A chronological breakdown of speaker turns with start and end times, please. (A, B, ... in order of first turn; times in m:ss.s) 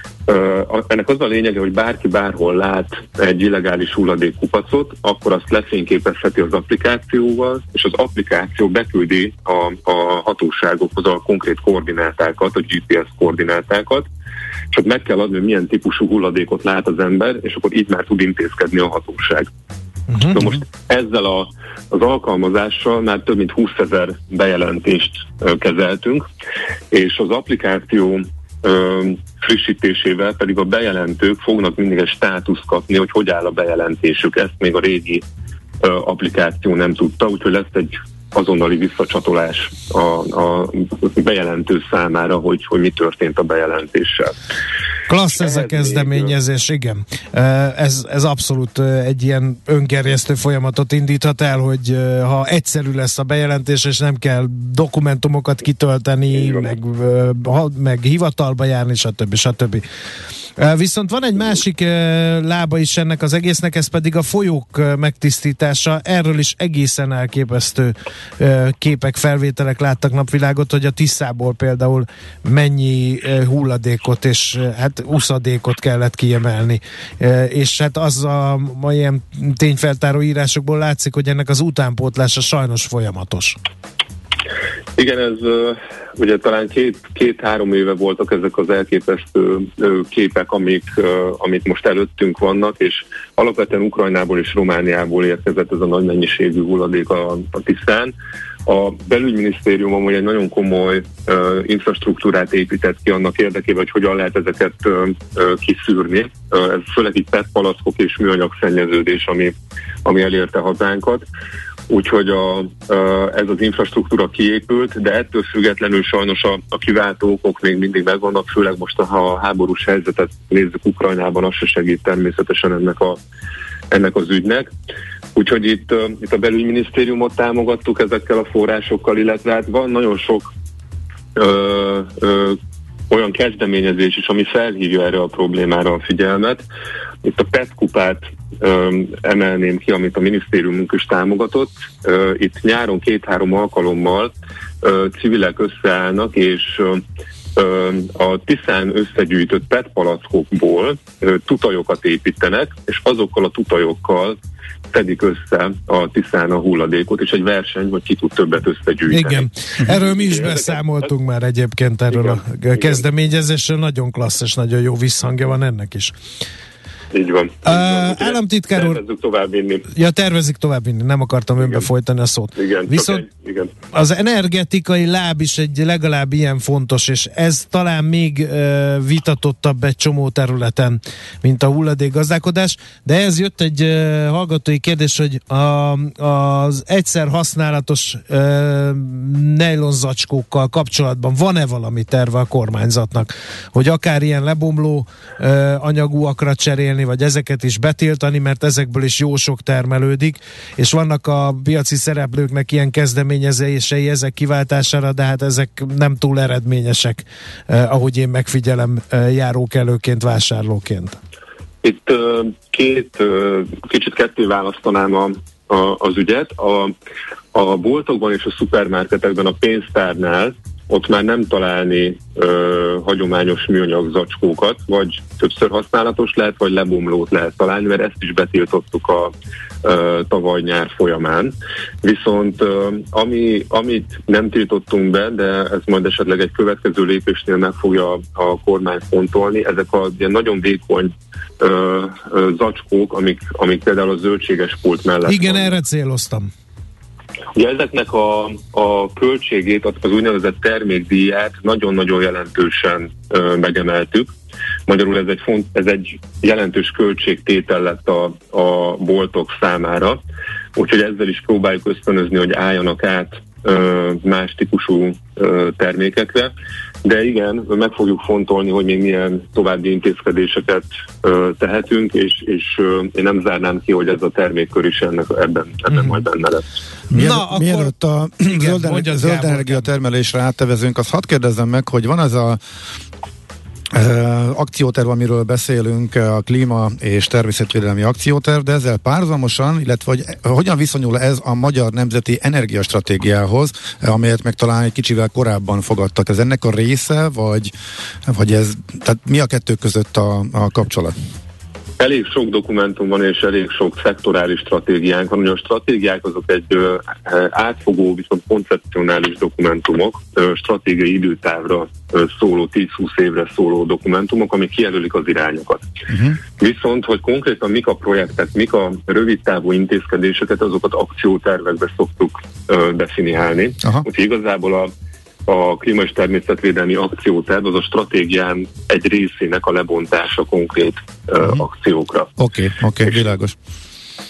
0:00.3-0:14.1 A
0:14.7-0:19.5 A
0:20.3-0:26.2 A
0:26.9-0:35.2 A
0:35.8-0:44.3 A
0:45.1-0:59.8 B
0:45.4-0:46.3 A
1:00.6-1:23.6 B
1:25.0-1:38.1 A
1:38.7-1:49.5 A
1:50.0-1:51.3 A
1:51.9-2:03.2 A
2:03.9-2:04.7 A
2:05.4-2:10.5 A
2:11.4-2:12.6 A
2:13.1-2:16.6 A
2:17.2-2:27.0 A
2:27.6-2:34.4 A
2:34.9-2:40.8 A
2:39.1-2:46.1 B
2:42.1-2:43.0 A
2:47.1-2:49.9 A
2:47.6-2:49.0 B
2:50.0-2:53.3 B
2:52.6-2:53.7 A
2:53.9-3:31.2 B
3:31.8-3:36.9 A
3:37.5-3:51.5 A
3:52.0-4:05.8 A
4:05.3-4:06.5 B
4:07.6-4:14.3 A
4:14.9-4:20.2 A
4:20.8-4:26.5 A
4:27.0-4:36.6 A
4:35.9-4:36.2 B
4:37.1-4:42.6 C
4:37.1-4:39.9 B
4:43.9-4:57.7 C
4:58.3-5:01.1 C
5:02.0-5:15.9 A
5:16.1-5:16.4 C
5:16.6-5:24.9 A
5:25.5-5:32.3 A
5:32.4-5:33.6 C